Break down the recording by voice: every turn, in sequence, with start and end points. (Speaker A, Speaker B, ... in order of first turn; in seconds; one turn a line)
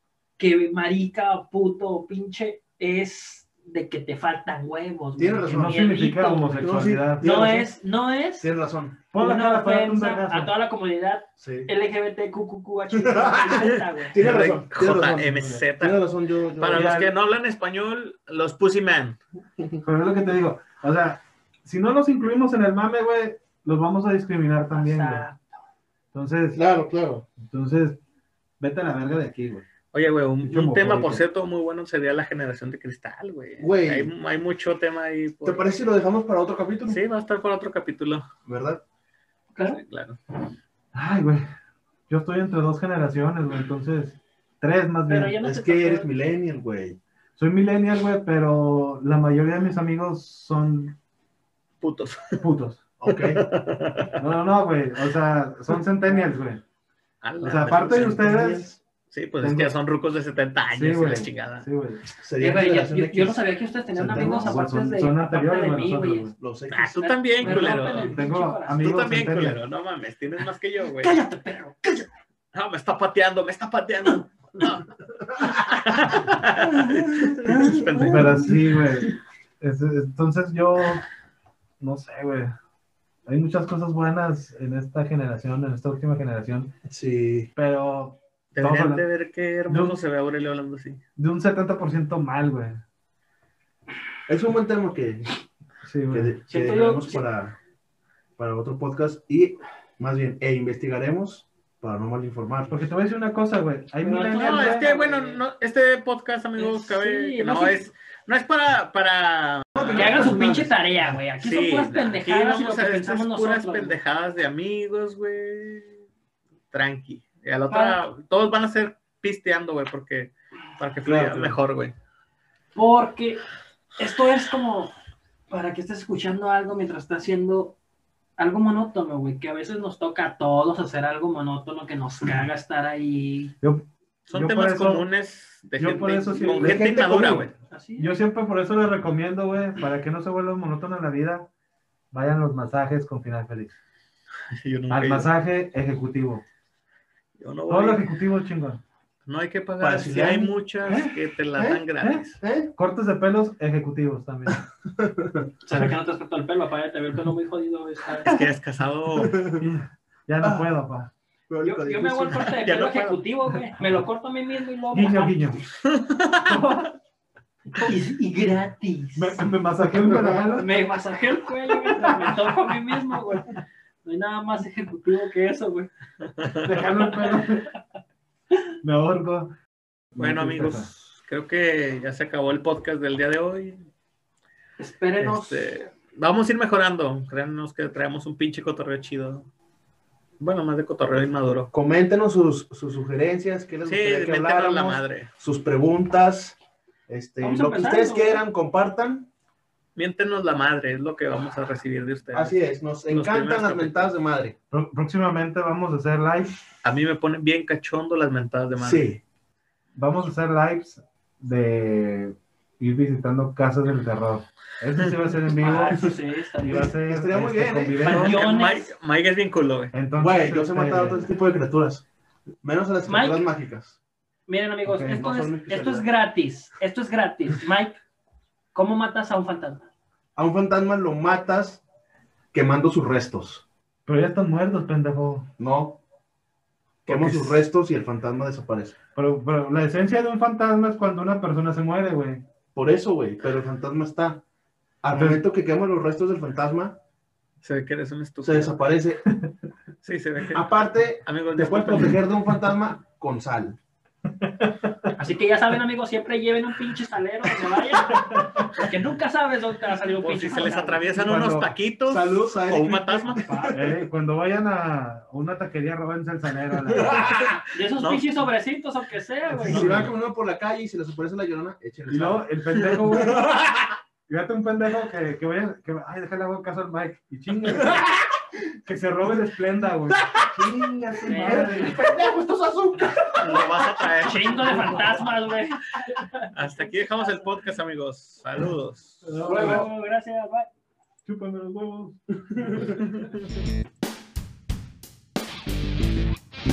Speaker A: 0.4-6.7
Speaker B: 5.2-5.9
Speaker C: 5.5-7.3
Speaker B: 6.5-7.7
Speaker A: 7.2-8.5
Speaker B: 8.4-9.0
Speaker C: 9.1-10.5
Speaker A: 9.1-14.2
Speaker B: 11.4-11.7
Speaker B: 12.9-15.2
Speaker D: 13.6-16.0
Speaker C: 14.8-15.7
Speaker B: 15.8-16.9
Speaker D: 16.6-19.2
Speaker C: 16.7-17.1
Speaker C: 19.8-25.3
Speaker A: 24.7-25.6
Speaker C: 26.1-26.6
Speaker B: 26.5-27.3
Speaker C: 27.4-28.0
Speaker C: 28.6-29.7
Speaker D: 29.9-35.7
Speaker C: 30.4-31.2
Speaker B: 33.6-34.1
Speaker B: 35.4-37.0
Speaker D: 36.9-38.3
Speaker B: 38.4-38.8
Speaker A: 39.5-39.8
Speaker D: 39.6-40.2
Speaker C: 40.9-41.4
Speaker C: 42.1-45.4
Speaker A: 45.1-46.1
Speaker B: 45.4-47.0
Speaker C: 47.4-51.0
Speaker D: 51.8-52.4
Speaker C: 52.4-52.8
Speaker B: 53.0-53.4
Speaker D: 53.1-54.2
Speaker C: 54.2-56.6
Speaker D: 57.2-58.2
Speaker C: 57.4-58.7
Speaker B: 57.8-58.8
Speaker D: 59.1-61.7
Speaker C: 59.4-59.8
Speaker C: 60.7-62.0
Speaker B: 62.2-63.4
Speaker A: 62.4-66.3
Speaker B: 63.9-64.6
Speaker C: 64.1-66.3
Speaker B: 66.4-67.7
Speaker D: 66.7-68.1
Speaker A: 67.0-68.9
Speaker C: 67.9-69.6
Speaker D: 68.8-71.2
Speaker A: 71.0-72.1
Speaker D: 72.5-74.8
Speaker B: 75.3-75.6
Speaker D: 75.4-78.5
Speaker B: 77.4-77.9
Speaker A: 77.5-78.5
Speaker C: 78.1-81.0
Speaker C: 81.8-82.5
Speaker C: 83.2-86.7
Speaker B: 86.9-87.5
Speaker C: 87.5-89.0
Speaker D: 88.5-91.0
Speaker C: 89.7-90.0
Speaker C: 91.2-92.8
Speaker B: 94.3-95.3
Speaker C: 95.8-96.3
Speaker B: 96.1-97.5
Speaker A: 96.5-97.2
Speaker B: 98.4-102.8
Speaker C: 102.7-104.8
Speaker A: 104.0-105.4
Speaker D: 104.3-110.2
Speaker A: 106.6-107.8
Speaker B: 109.7-110.7
Speaker A: 109.9-114.0
Speaker D: 111.4-116.0
Speaker D: 116.7-121.9
Speaker A: 117.7-118.0
Speaker C: 121.0-121.6
Speaker A: 122.7-123.4
Speaker A: 124.0-124.9
Speaker A: 125.5-127.8
Speaker A: 128.4-133.5
Speaker C: 133.6-135.1
Speaker D: 134.3-137.5
Speaker C: 135.8-141.5
Speaker B: 136.5-137.4
Speaker A: 137.7-138.1
Speaker C: 142.1-143.8
Speaker D: 144.5-145.3
Speaker C: 144.9-146.4
Speaker D: 147.4-148.1
Speaker C: 147.7-148.8
Speaker D: 149.2-152.4
Speaker B: 149.8-150.6
Speaker C: 150.9-151.1
Speaker B: 151.6-151.8
Speaker C: 152.0-152.2
Speaker B: 152.4-152.7
Speaker C: 152.8-154.6
Speaker B: 154.9-155.5
Speaker A: 155.6-158.4
Speaker D: 158.2-159.4
Speaker B: 159.1-159.7
Speaker C: 159.6-161.1
Speaker B: 160.4-160.7
Speaker B: 161.5-162.5
Speaker A: 161.6-165.4
Speaker D: 162.4-163.2
Speaker C: 164.9-165.6
Speaker D: 165.8-166.8
Speaker C: 166.4-166.9
Speaker A: 167.8-169.5
Speaker C: 169.2-170.7
Speaker B: 170.0-170.4
Speaker A: 170.5-175.9
Speaker D: 176.2-176.7
Speaker C: 176.6-177.7
Speaker A: 177.0-177.5
Speaker C: 178.8-179.6
Speaker C: 180.1-180.9
Speaker D: 180.2-183.8
Speaker A: 184.8-185.7
Speaker D: 185.2-189.5
Speaker D: 190.4-191.7
Speaker B: 191.7-196.6
Speaker D: 193.8-195.3
Speaker B: 197.1-199.3
Speaker A: 197.4-198.4
Speaker D: 199.9-204.1
Speaker B: 202.3-204.6
Speaker C: 204.7-206.6
Speaker D: 206.8-209.1
Speaker B: 208.8-209.2
Speaker C: 209.9-216.1
Speaker A: 215.6-216.9
Speaker C: 216.6-218.4
Speaker B: 216.7-218.2
Speaker A: 218.0-218.9
Speaker D: 218.0-219.9
Speaker C: 219.9-221.3
Speaker B: 220.2-222.0
Speaker B: 222.6-224.0
Speaker A: 223.1-223.4
Speaker A: 224.5-228.0
Speaker C: 224.8-225.2
Speaker B: 225.1-226.0
Speaker A: 228.7-229.9
Speaker B: 230.3-231.8
Speaker B: 232.5-233.6
Speaker C: 234.1-235.5
Speaker B: 235.6-236.0
Speaker C: 237.1-237.7
Speaker B: 237.1-239.0
Speaker C: 239.2-242.4
Speaker B: 242.7-244.4
Speaker B: 245.0-247.0
Speaker C: 245.1-245.4
Speaker D: 247.6-248.8
Speaker B: 248.4-249.2
Speaker D: 250.0-252.2
Speaker B: 250.5-253.8
Speaker C: 254.6-255.1
Speaker A: 255.2-261.1
Speaker C: 258.0-258.9
Speaker D: 260.2-263.5
Speaker B: 261.2-263.8
Speaker C: 261.2-261.7
Speaker A: 263.3-263.9
Speaker C: 263.7-267.5
Speaker A: 267.7-270.1
Speaker D: 267.9-268.3
Speaker C: 269.5-270.1
Speaker B: 269.6-273.9
Speaker C: 272.1-273.6
Speaker C: 274.3-278.2
Speaker C: 278.8-283.6
Speaker B: 280.3-280.7
Speaker A: 281.2-282.0
Speaker B: 281.3-283.4
Speaker D: 283.4-285.2
Speaker A: 284.2-286.5
Speaker D: 286.5-289.8
Speaker C: 289.2-289.9
Speaker A: 289.4-290.7
Speaker C: 291.2-293.2
Speaker B: 292.6-293.0